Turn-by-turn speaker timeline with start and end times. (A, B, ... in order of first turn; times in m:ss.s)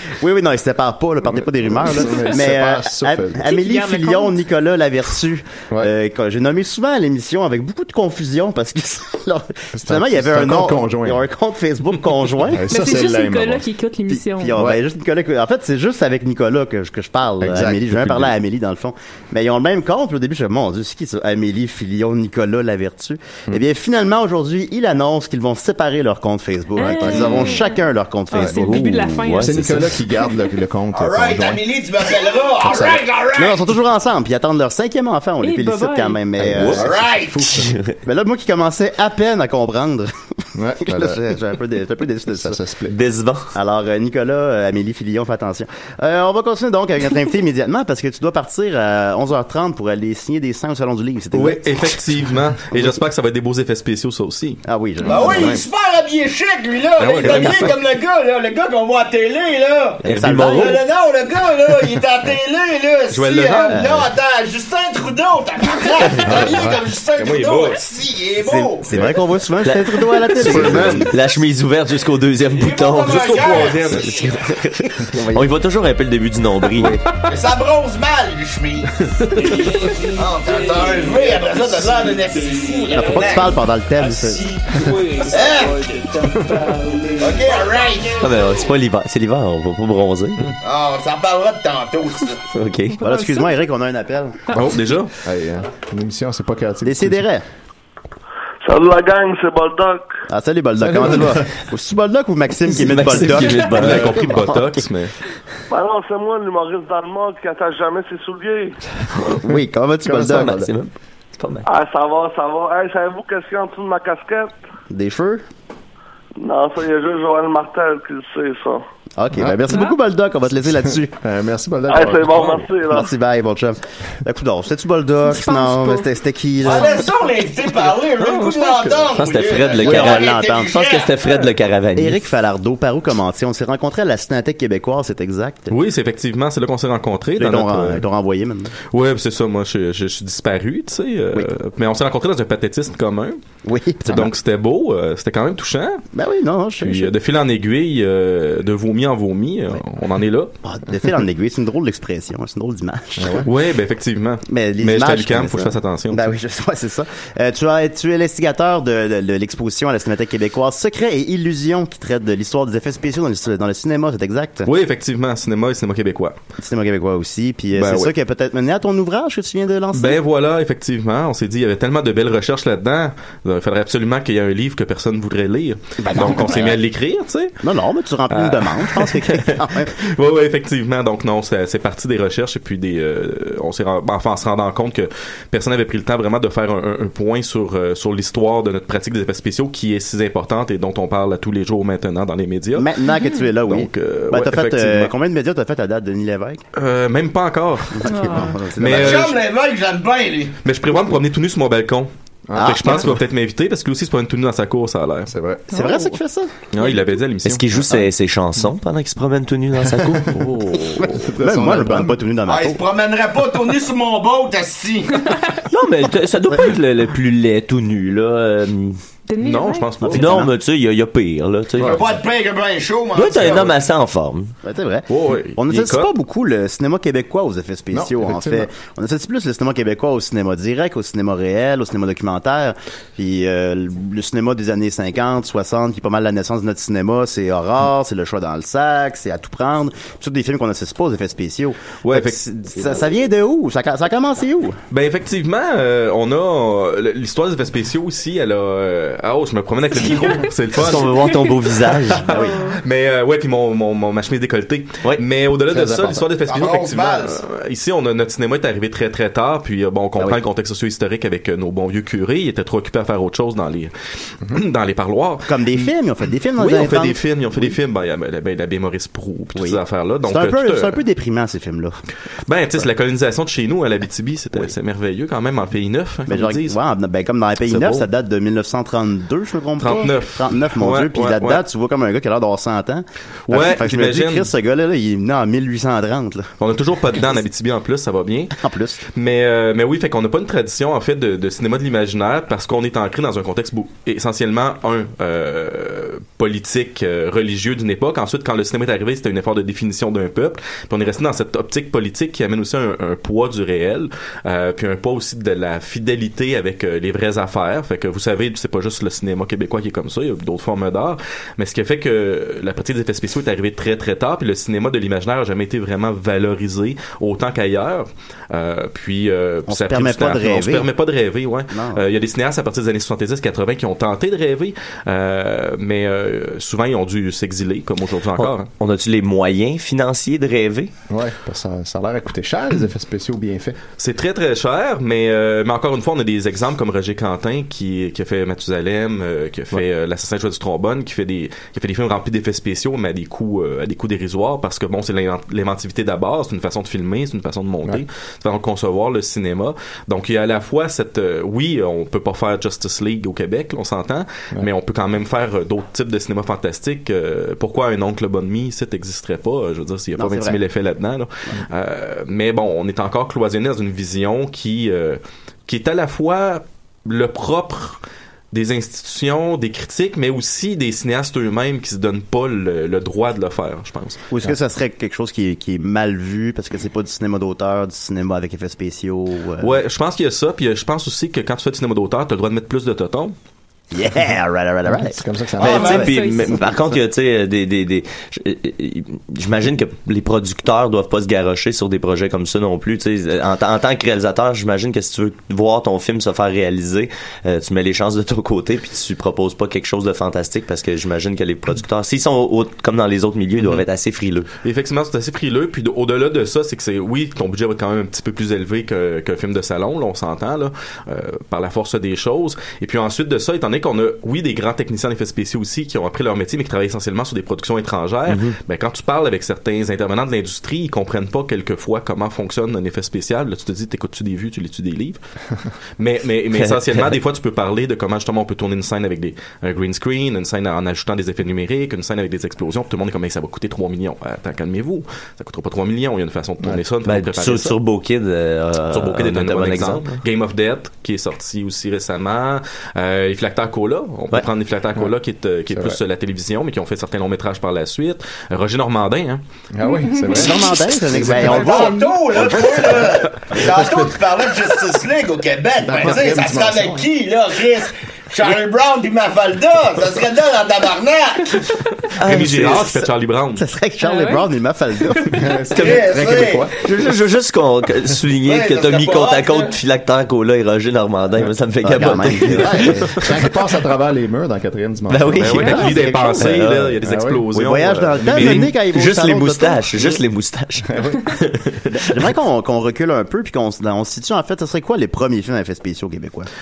0:00.2-0:12.7 A
0:01.3-0:03.4 B
0:03.4-0:04.4 C
0:09.7-0:11.2 B
0:12.5-0:13.6 B
0:12.7-0:14.6 C
0:14.1-0:28.9 A
0:17.4-0:18.3 B
0:26.8-0:29.8 C
0:26.9-0:27.6 B
0:28.3-0:31.6 B
0:29.2-0:29.8 D
0:30.9-0:33.7 E
0:32.6-0:33.1 B
0:33.4-0:36.8 A
0:35.4-0:36.2 C
0:36.4-0:36.8 D
0:36.5-0:37.7 B
0:36.8-0:37.6 E
0:37.5-0:37.9 D
0:38.0-0:40.1 A
0:40.5-0:41.4 B
0:40.8-0:42.6 A
0:42.3-0:43.0 B
0:42.9-0:43.4 D
0:43.5-0:51.7 A
0:51.3-0:54.6 F
0:54.6-0:55.6 A
0:55.0-1:08.8 E
0:57.0-0:57.7 F
0:57.2-0:57.7 A
1:00.0-1:00.8 A
1:00.1-1:00.8 D
1:03.1-1:03.8 F
1:03.7-1:04.0 A
1:06.4-1:06.7 B
1:07.2-1:07.8 F
1:08.4-1:11.1 A
1:09.6-1:17.0 D
1:10.4-1:11.1 B
1:12.5-1:14.3 E
1:13.0-1:14.3 F
1:15.0-1:15.5 A
1:17.2-1:18.9 E
1:19.6-1:23.6 E
1:22.9-1:24.5 A
1:25.2-1:25.9 E
1:27.2-1:28.3 E
1:28.2-1:30.4 D
1:30.6-1:32.4 E
1:32.5-1:33.0 D
1:33.0-1:33.6 C
1:33.0-1:34.4 A
1:34.5-1:35.1 F
1:35.2-1:37.2 B
1:36.8-1:37.4 A
1:38.6-1:40.1 G
1:40.3-1:44.7 A
1:40.9-1:41.4 B
1:42.6-1:44.2 D
1:43.7-1:45.1 F
1:45.7-1:48.8 G
1:49.4-1:50.7 A
1:50.1-1:50.6 B
1:50.2-1:51.6 D
1:51.6-1:54.5 G
1:54.9-1:55.4 A
1:56.4-1:58.8 G
1:59.2-2:01.2 A
1:59.7-2:00.0 C
2:01.2-2:02.5 B
2:01.9-2:03.1 G
2:02.3-2:02.6 F
2:02.9-2:06.9 A
2:05.2-2:06.0 C
2:06.6-2:11.5 E
2:06.7-2:07.1 C
2:08.2-2:09.4 F
2:09.0-2:12.2 D
2:09.8-2:10.8 A
2:12.0-2:15.8 A
2:15.7-2:18.0 F
2:17.4-2:18.7 A
2:18.9-2:23.4 F
2:23.6-2:24.3 A
2:24.1-2:26.0 F
2:26.1-2:27.1 A
2:26.8-2:30.5 F
2:30.6-2:33.5 A
2:33.2-2:33.5 B
2:33.4-2:36.3 F
2:34.5-2:44.7 A
2:44.6-2:46.4 F
2:46.6-2:50.2 A
2:47.7-2:48.1 F
2:49.9-2:57.6 F
2:56.0-2:56.8 A
2:57.6-3:00.0 A
2:58.3-3:12.9 F
3:12.8-3:16.6 A
3:13.6-3:15.1 F
3:16.7-3:19.4 F
3:18.0-3:19.3 A
3:18.1-3:18.6 C
3:18.8-3:20.6 E
3:20.6-3:25.3 F
3:22.5-3:23.1 B
3:22.6-3:23.1 A
3:25.3-3:25.7 B
3:25.7-3:26.1 C
3:25.7-3:26.5 A
3:26.7-3:27.9 F
3:27.4-3:30.4 D
3:30.2-3:32.2 B
3:31.4-3:32.8 A
3:32.5-3:35.3 E
3:35.7-3:39.0 D
3:39.3-3:40.0 C
3:39.4-3:40.4 F
3:40.0-3:40.5 A
3:40.1-3:42.0 D
3:41.8-3:42.0 B
3:41.9-3:43.8 E
3:43.1-3:44.5 D
3:44.6-4:04.8 A
3:45.1-3:46.1 F
3:47.9-3:48.7 B
4:02.0-4:02.4 F
4:04.9-4:11.3 F
4:10.8-4:12.3 D
4:12.3-4:23.9 F
4:12.3-4:12.6 A
4:15.7-4:16.2 B
4:16.4-4:17.4 E
4:24.5-4:25.9 F
4:25.5-4:27.7 A
4:26.6-4:31.0 F
4:29.6-4:32.0 A
4:32.4-4:36.8 F
4:36.3-4:46.5 A
4:37.6-4:38.1 F
4:39.8-4:41.6 F
4:43.5-4:44.5 F
4:46.6-4:48.5 F
4:48.6-4:49.0 A
4:49.1-5:28.7 F
5:19.7-5:20.9 A
5:21.7-5:22.0 A
5:28.4-5:30.9 D
5:31.1-5:33.8 B
5:34.0-6:14.2 F
6:00.2-6:00.6 A
6:14.3-6:19.8 A
6:19.6-6:23.4 F
6:23.9-6:25.2 A
6:24.9-6:26.0 B
6:25.6-6:44.5 D
6:25.6-6:26.6 C
6:25.7-6:26.0 E
6:25.7-6:26.1 A
6:44.6-7:05.2 F
6:58.3-6:58.5 D
7:06.0-7:17.8 F
7:06.6-7:07.1 D
7:17.0-7:20.2 D
7:18.9-7:29.4 F
7:25.7-7:26.0 B
7:29.7-7:31.9 B
7:29.8-7:30.7 C
7:30.3-7:32.1 A
7:31.4-7:41.7 E
7:35.8-7:37.1 B
7:42.2-7:42.9 D
7:42.2-7:43.6 F
7:42.5-7:43.0 A
7:43.6-7:45.5 A
7:44.0-7:44.4 C
7:45.4-7:46.8 B
7:45.8-7:46.7 E
7:45.8-7:53.3 D
7:48.4-7:49.8 E
7:51.8-7:52.9 A
7:52.4-7:55.8 B
7:55.1-7:56.9 D
7:55.4-7:58.7 F
7:55.7-7:56.5 A
7:57.0-7:57.4 B
7:57.5-8:00.2 A
7:58.3-8:01.5 D
8:00.9-8:01.3 B
8:01.9-8:06.5 A